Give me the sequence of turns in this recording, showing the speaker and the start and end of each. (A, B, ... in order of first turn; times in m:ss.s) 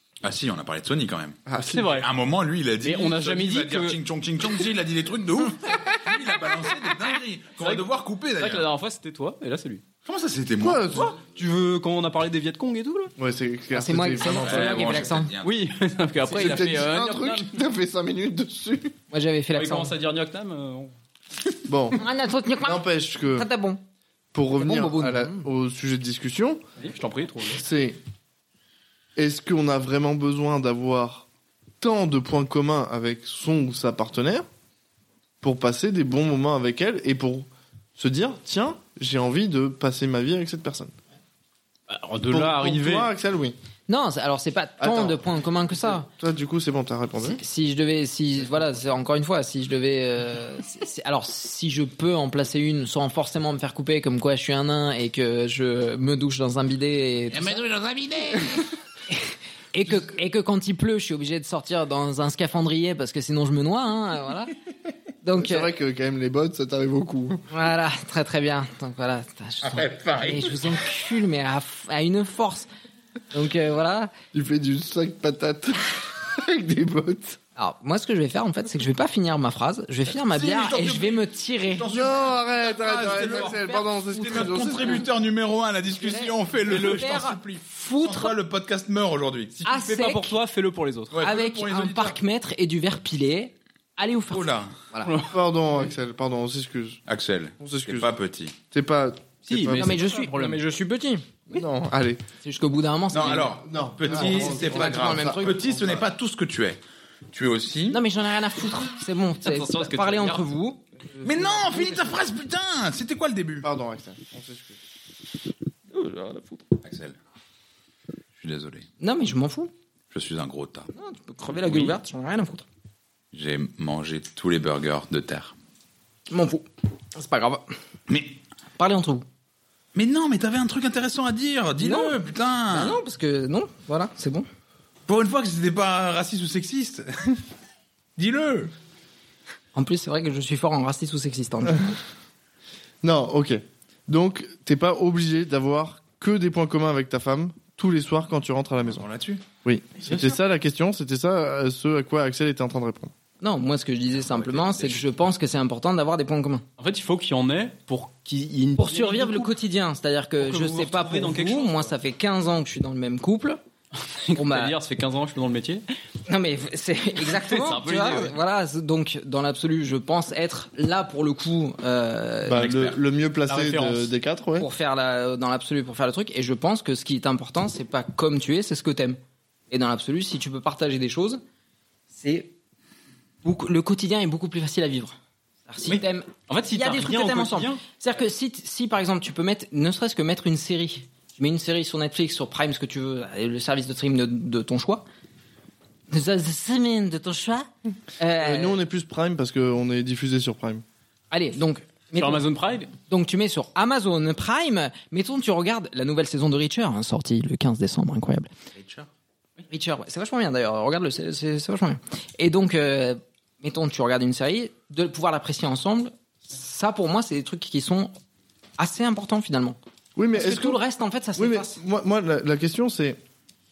0:00.2-0:08.7 A
0:01.5-0:02.0 B
0:01.7-0:02.1 C
0:02.8-0:04.0 C
0:07.6-0:09.8 C
0:10.0-0:11.1 A
0:10.6-0:11.2 B
0:10.9-0:13.1 C
0:13.2-0:14.9 B
0:13.7-0:15.3 D
0:14.4-0:15.6 A
0:15.4-0:17.5 C
0:16.3-0:18.9 B
0:19.1-0:19.9 D
0:19.5-0:20.9 C
0:21.7-0:22.0 B
0:22.0-0:23.8 D
0:22.6-0:23.5 B
0:24.3-0:26.6 B
0:24.6-0:25.4 D
0:26.8-0:27.6 C
0:27.5-0:28.0 B
0:29.2-0:31.2 B
0:31.8-0:34.4 B
0:35.4-0:40.9 B
0:41.9-0:43.1 C
0:42.3-0:43.6 B
0:43.9-0:46.1 D
0:44.8-0:45.2 B
0:45.8-0:47.4 B
0:47.2-0:57.7 D
0:57.6-0:58.5 A
0:59.1-1:04.5 D
1:05.2-1:05.7 D
1:05.4-1:07.4 B
1:07.5-1:12.7 D
1:09.6-1:10.8 A
1:13.3-1:14.1 D
1:14.3-1:17.4 B
1:17.6-1:21.9 D
1:20.2-1:23.6 A
1:21.9-1:25.0 B
1:23.0-1:25.0 D
1:24.1-1:29.5 A
1:25.9-1:28.3 D
1:26.7-1:27.1 C
1:29.5-1:31.2 C
1:29.6-1:30.3 D
1:31.1-1:32.2 A
1:31.2-1:35.1 D
1:34.3-1:34.7 A
1:35.0-1:35.3 C
1:35.2-1:37.0 B
1:37.1-1:38.5 A
1:37.6-1:38.1 B
1:38.7-1:40.0 B
1:39.5-1:40.6 C
1:39.8-1:41.6 D
1:41.5-1:42.2 B
1:42.4-1:45.6 D
1:43.1-1:46.8 A
1:43.6-1:46.0 B
1:47.3-1:48.0 A
1:47.9-1:52.2 D
1:49.4-1:50.4 C
1:51.2-1:53.7 A
1:53.6-1:54.8 B
1:56.0-1:56.5 D
1:56.8-1:57.2 A
1:58.4-1:58.9 A
1:59.0-1:59.7 D
2:00.1-2:00.9 A
2:00.9-2:02.6 D
2:01.6-2:02.0 A
2:03.3-2:05.5 A
2:06.3-2:07.7 D
2:08.1-2:08.4 A
2:08.8-2:09.2 D
2:09.9-2:13.0 A
2:11.8-2:12.2 D
2:12.7-2:14.5 D
2:15.1-2:17.4 A
2:18.2-2:18.7 A
2:19.7-2:22.0 D
2:23.0-2:29.0 B
2:28.9-2:29.4 A
2:29.6-2:33.1 B
2:30.1-2:30.4 C
2:33.4-2:36.6 D
2:34.2-2:35.0 A
2:36.8-2:39.5 C
2:38.8-2:43.6 D
2:40.4-2:41.9 C
2:44.0-2:45.8 C
2:44.3-2:44.7 D
2:46.2-2:52.7 D
2:47.2-2:48.4 C
2:52.4-2:54.7 B
2:52.5-2:53.0 A
2:53.5-2:54.1 C
2:54.6-2:59.2 D
2:59.7-3:01.4 D
3:02.1-3:02.5 D
3:03.4-3:05.2 D
3:05.7-3:15.1 D
3:05.8-3:07.8 C
3:16.1-3:18.8 D
3:18.4-3:20.8 B
3:21.3-3:22.4 D
3:22.2-3:22.9 C
3:23.0-3:28.5 D
3:28.7-3:29.1 A
3:29.7-3:38.1 D
3:38.8-3:39.8 D
3:40.2-3:40.8 B
3:40.3-3:41.8 D
3:41.4-3:43.2 B